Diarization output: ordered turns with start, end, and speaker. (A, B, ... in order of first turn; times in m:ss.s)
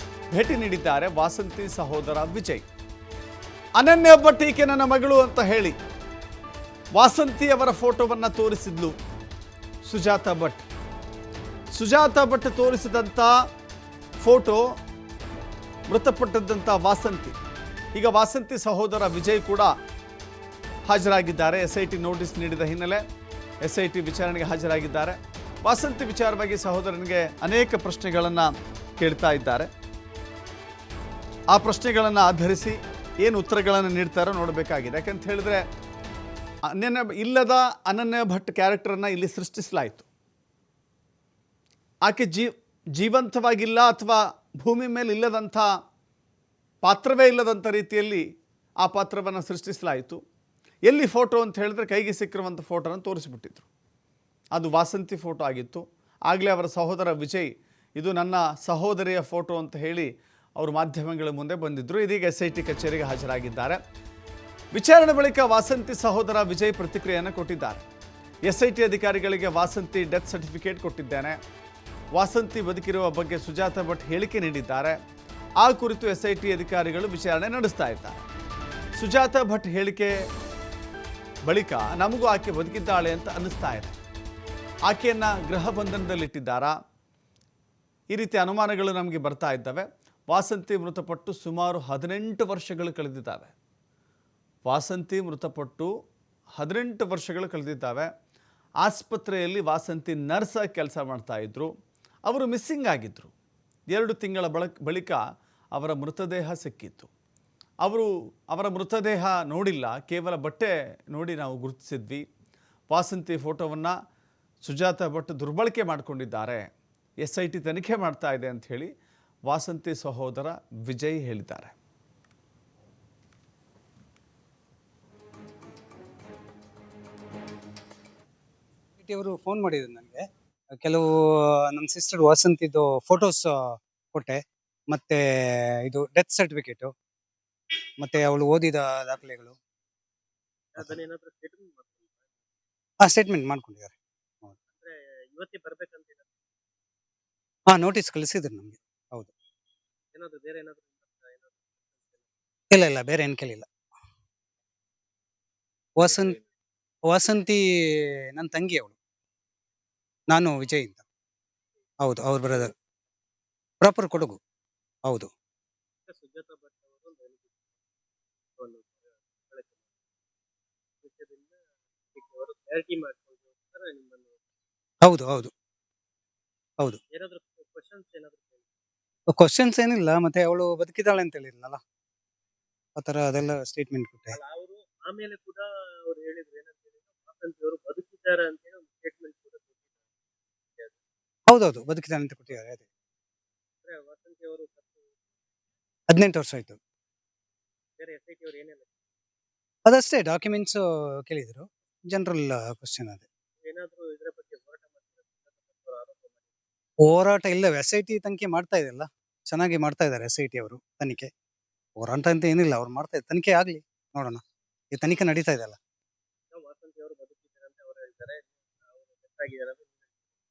0:00.3-0:02.6 A
0:03.8-0:05.7 A
0:07.0-0:09.0 A
0:09.8-0:10.6 A
0:11.7-0:13.3 A
0:14.2-0:14.6 A
0:15.9-0:17.4 A
0:17.9-0:19.7 A
0:20.9-0:23.0 A
0:23.6-0:29.7 A
0:31.5-0:35.6 A
0:36.7-0:40.1 A
0:42.0-0:45.7 A
0:46.8-0:48.2 A
0:48.8-0:50.2 A
0:50.9-0:53.7 A
0:54.5-1:03.8 A
1:04.7-1:07.8 A
1:08.5-1:11.4 A
1:12.1-1:15.0 A
1:15.6-1:18.2 A
1:19.0-1:20.1 A
1:21.5-1:24.0 A
1:24.9-1:26.7 A
1:28.1-1:33.5 A
1:34.6-1:35.9 A
1:36.6-1:38.1 A
1:38.8-1:41.7 A
1:42.3-1:43.3 A
1:43.9-1:45.2 A
1:45.7-1:47.1 A
1:47.8-1:52.2 A
1:52.9-1:53.9 A
1:54.6-1:56.6 A
1:57.2-1:58.9 A
1:59.5-2:01.7 A
2:09.0-2:16.9 B
2:18.0-2:19.6 B
2:20.7-2:22.1 C
2:23.0-2:24.5 B
2:24.7-2:26.3 C
2:27.7-2:29.3 B
2:30.1-2:32.2 C
2:32.7-2:33.7 B
2:36.0-2:36.4 B
2:36.0-2:36.4 C
2:37.0-2:39.0 B
2:40.3-2:41.0 B
2:42.0-2:42.7 B
2:43.8-2:44.4 B
2:45.0-2:45.3 B
2:46.1-2:47.6 C
2:48.6-2:49.8 C
2:51.0-2:51.5 C
2:52.1-2:54.4 C
2:55.0-2:55.5 B
2:57.1-2:58.6 C
2:59.3-3:01.8 B
3:03.0-3:04.4 B
3:04.3-3:09.8 C
3:11.5-3:12.8 B
3:13.8-3:15.0 C
3:16.1-3:16.8 B
3:18.0-3:18.9 C
3:19.8-3:23.2 B
3:23.6-3:26.4 C
3:27.0-3:31.3 B
3:32.0-3:35.8 B
3:36.5-3:40.0 C